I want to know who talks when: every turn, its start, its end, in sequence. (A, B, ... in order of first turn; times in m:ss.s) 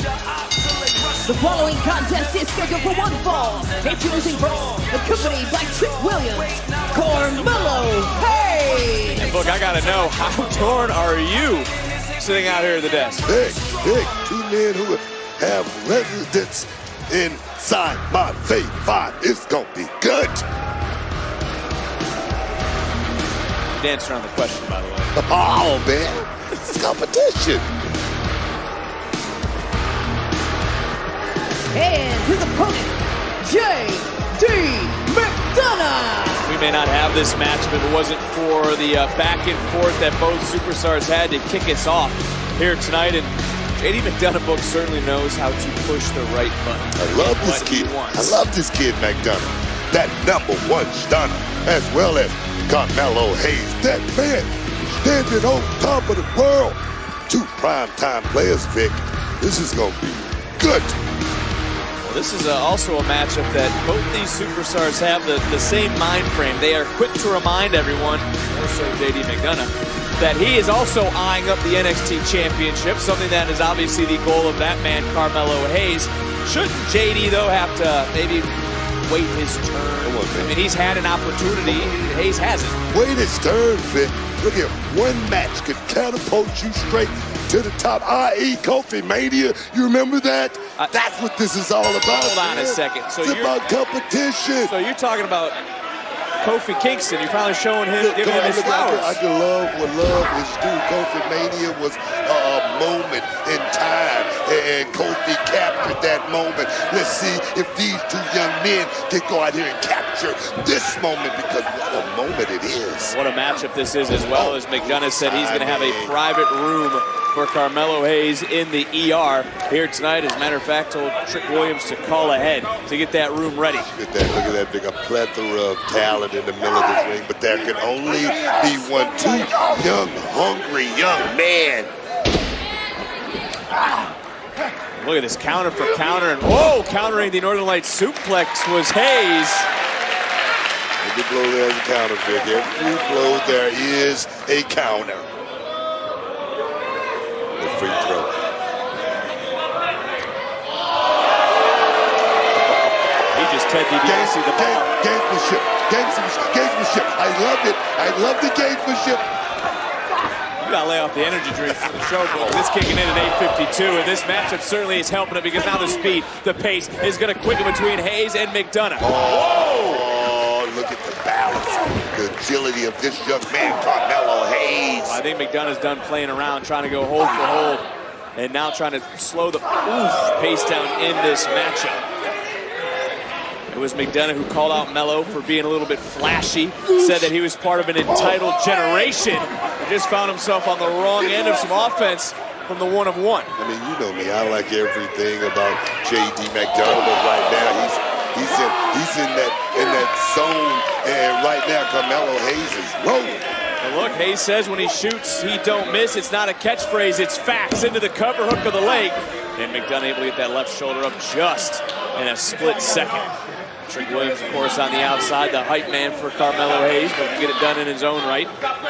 0:01.2-0:09.3 A
0:09.1-0:13.3 B
0:13.2-0:20.4 C
0:23.7-0:25.1 B
0:25.1-0:27.7 C
0:31.7-0:36.5 A
0:36.4-0:48.4 B
0:47.0-1:01.0 C
1:02.0-1:18.5 B
1:19.0-1:22.8 B
1:20.0-1:20.6 C
1:22.9-1:34.7 C
1:32.1-1:33.6 B
1:34.7-1:35.6 B
1:36.4-1:39.2 B
1:38.0-1:53.1 C
1:53.1-2:03.9 B
1:54.3-1:56.2 C
2:03.9-2:11.9 C
2:15.0-2:19.7 B
2:21.0-2:25.3 C
2:27.6-2:28.3 C
2:33.3-2:34.9 B
2:34.0-2:39.2 C
2:40.6-2:50.0 B
2:49.0-2:55.2 C
2:55.0-2:57.8 B
2:58.4-3:02.0 B
3:03.7-3:13.5 B
3:13.6-3:23.4 C
3:23.8-3:33.3 B
3:33.9-3:38.5 B